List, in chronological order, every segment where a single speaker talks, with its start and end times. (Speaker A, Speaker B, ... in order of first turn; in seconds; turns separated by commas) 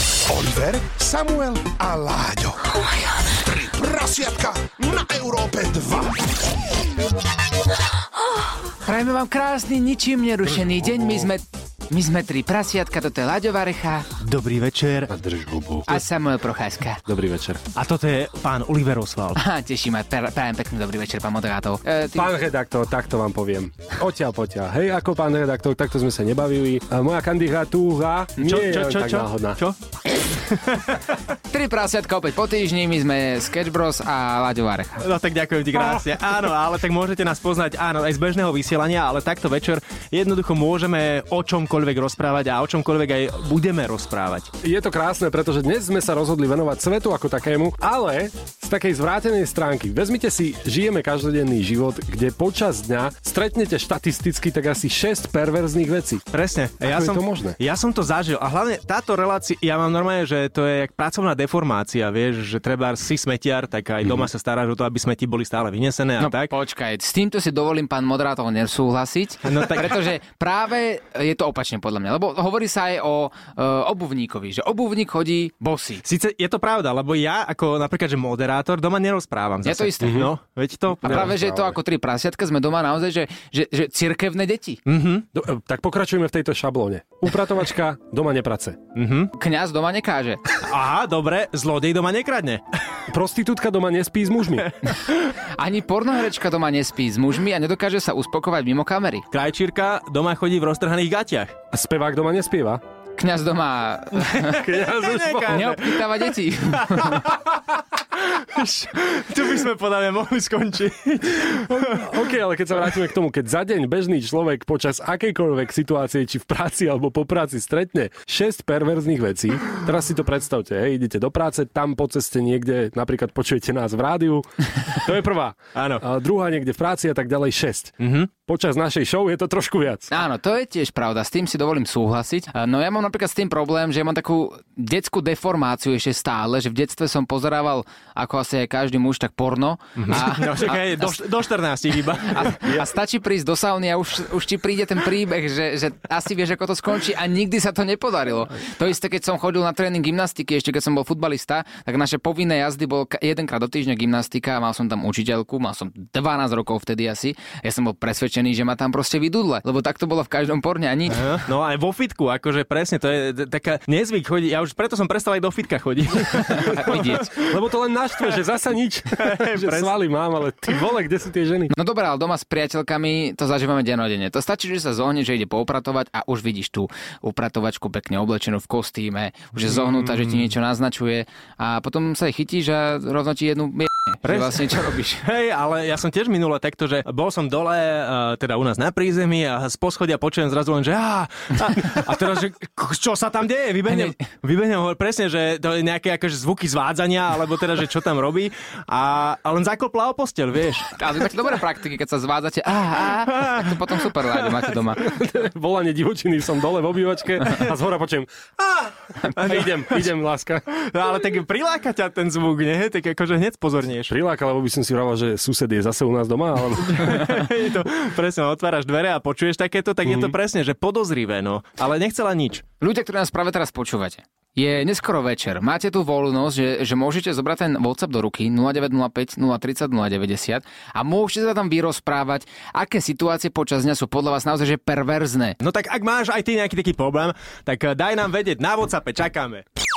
Speaker A: 0.3-6.3, Speaker B: 8.8-14.1, Speaker C: 14.2-15.1, Speaker D: 15.1-16.1, Speaker B: 15.9-17.0, Speaker D: 17.1-17.6, Speaker C: 17.8-19.4, Speaker B: 19.4-22.3, Speaker D: 22.1-29.6, Speaker C: 28.4-29.8, Speaker C: 30.4-31.0, Speaker B: 31.5-35.0, Speaker C: 35.0-44.5, Speaker D: 44.6-56.2, Speaker C: 56.3-66.5, Speaker D: 56.9-57.6, Speaker B: 66.2-76.0, Speaker C: 69.4-70.1, Speaker C: 76.0-81.3, Speaker B: 79.6-80.3, Speaker D: 80.0-80.3, Speaker B: 81.0-84.8, Speaker D: 81.0-81.8, Speaker C: 84.8-85.2, Speaker D: 85.3-88.8, Speaker C: 88.9-89.3, Speaker B: 89.3-90.4, Speaker C: 90.6-92.6, Speaker D: 93.1-94.7, Speaker B: 95.6-99.2, Speaker C: 99.3-101.5, Speaker D: 101.7-102.8, Speaker B: 103.2-104.7, Speaker C: 104.2-107.6, Speaker D: 104.5-105.8, Speaker B: 105.5-107.4, Speaker C: 108.2-112.2, Speaker D: 111.7-130.1, Speaker C: 125.8-126.0, Speaker C: 128.0-128.3, Speaker B: 130.1-141.2, Speaker C: 140.0-142.6, Speaker B: 142.2-161.4, Speaker C: 161.1-167.6, Speaker B: 166.5-167.3, Speaker D: 166.9-171.7, Speaker C: 169.2-169.9, Speaker B: 171.7-185.2, Speaker C: 179.7-180.5, Speaker C: 184.2-200.9, Speaker B: 193.9-194.1, Speaker B: 201.0-205.0, Speaker C: 203.0-204.8, Speaker D: 205.0-210.7, Speaker C: 209.3-210.1, Speaker C: 210.8-214.1, Speaker D: 214.1-217.2, Speaker C: 216.8-222.7, Speaker D: 220.1-220.3, Speaker B: 222.8-235.6, Speaker C: 235.6-239.6